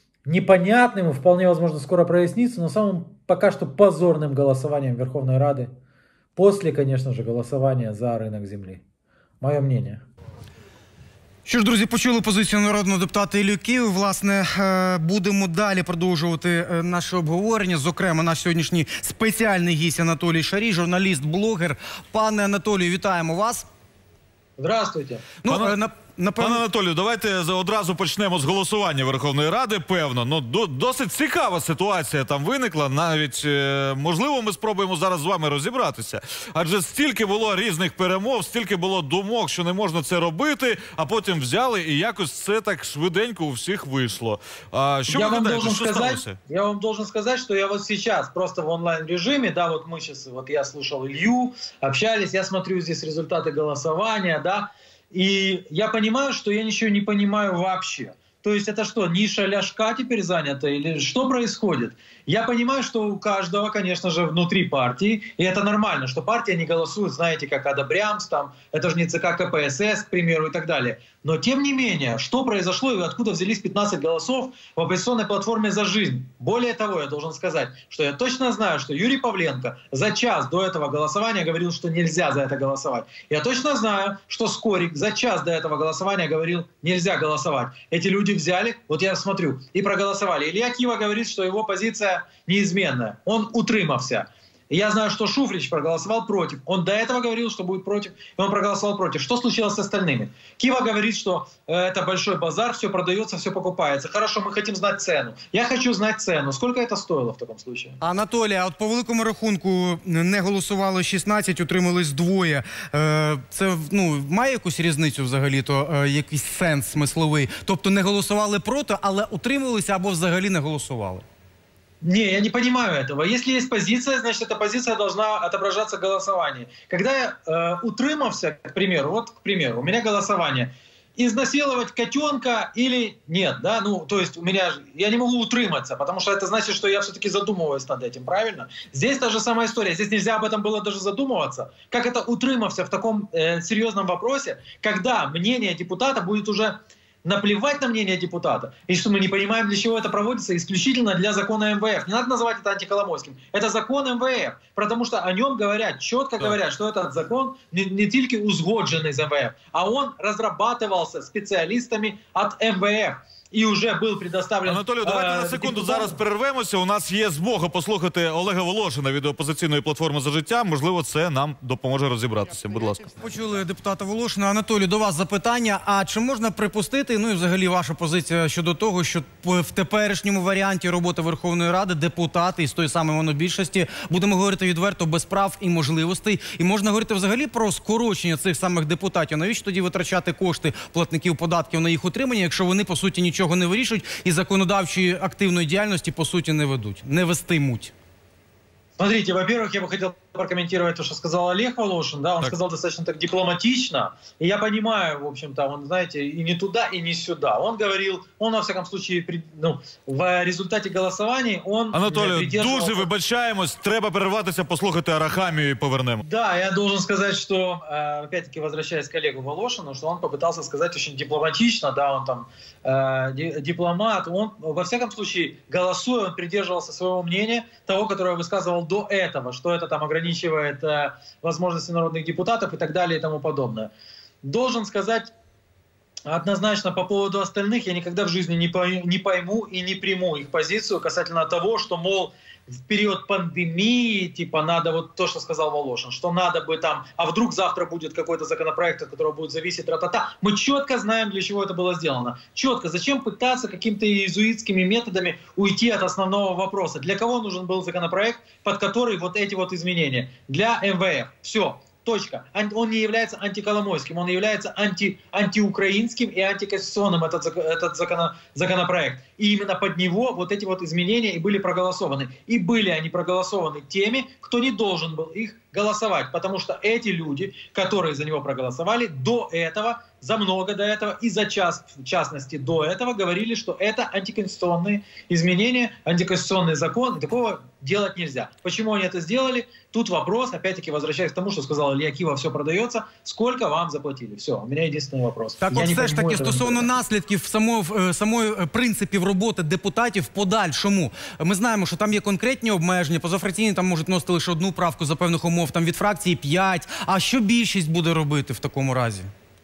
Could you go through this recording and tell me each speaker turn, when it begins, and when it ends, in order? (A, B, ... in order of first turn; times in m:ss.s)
0:00.2-0:05.7 A
0:06.4-0:08.8 A
0:09.4-0:10.0 A
0:11.4-0:23.6 B
0:24.6-0:25.2 A
0:25.4-0:26.6 B
0:25.5-0:25.8 C
0:26.4-0:46.4 C
0:45.1-1:48.0 A
1:48.0-2:01.2 B
2:02.0-2:46.1 A
2:44.6-2:53.2 C
2:53.1-3:17.9 B
3:19.0-3:33.1 A
3:31.9-3:36.2 C
3:36.2-3:53.9 A
3:54.4-3:55.3 A
3:56.3-4:56.9 A
4:55.6-5:09.3 B